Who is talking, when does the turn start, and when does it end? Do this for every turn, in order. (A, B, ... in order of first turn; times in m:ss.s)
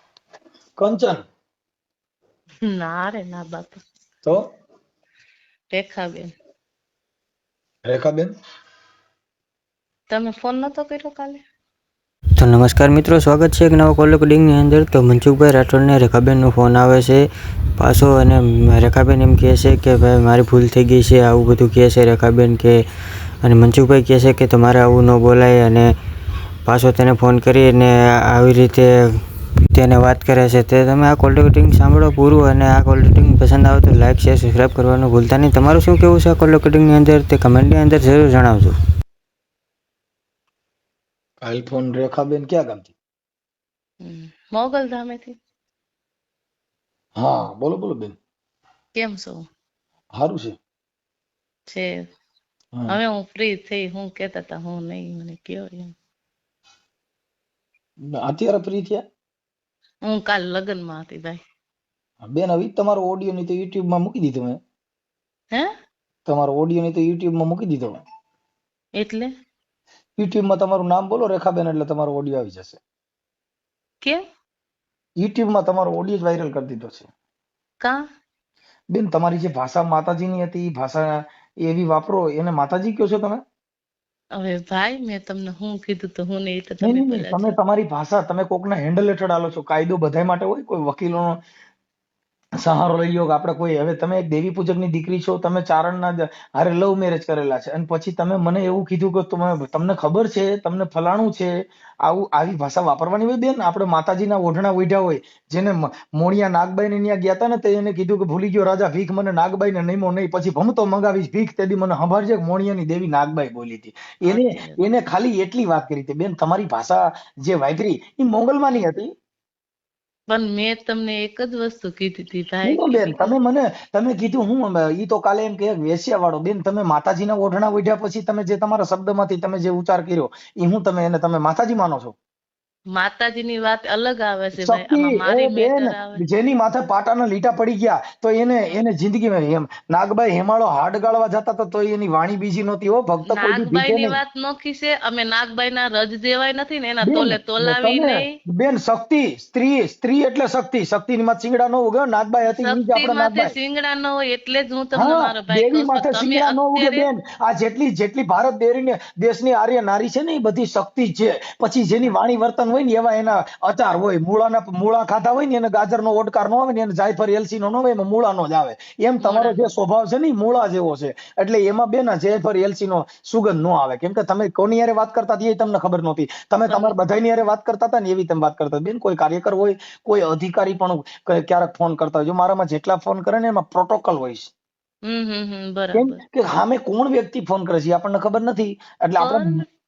0:00.8-0:01.2 A
0:02.6-0:03.8 B
0:05.7-0:06.3 B
0:07.8-0:08.3 A
0:10.1-0:11.4 B
0:12.4-0:22.8 C
0:23.4-0:25.9 C
0:26.6-0:29.2 C
0:29.7-0:38.8 C
0:41.4-0:42.9 A
0:44.0-0:45.4 B
0:47.2-0:48.2 A
0:48.9-0:49.4 B
0:50.1-0:50.6 A
0:51.7-0:52.1 B
0:52.9-0:55.9 B
0:58.1-0:59.0 A
1:00.0-1:01.4 B
1:02.2-1:04.6 A
1:06.2-1:08.0 A
1:09.0-1:09.3 B
1:10.2-1:12.8 A
1:15.2-1:17.1 A
1:18.9-1:21.1 A
1:21.6-1:23.4 A
1:24.3-1:27.5 B
1:26.8-1:31.4 A
1:32.6-1:41.5 A
1:42.0-1:59.1 A
1:54.2-1:54.8 B
2:00.3-2:03.4 B
2:02.6-2:12.1 A
2:12.9-2:16.2 B
2:14.6-2:24.2 A
2:23.3-2:28.3 B
2:27.0-2:33.5 A
2:32.5-2:37.1 B
2:35.0-3:04.5 A
2:49.2-2:49.7 B
2:56.7-2:56.9 B
3:05.0-3:06.2 B
3:05.9-3:09.6 A
3:09.2-3:09.6 B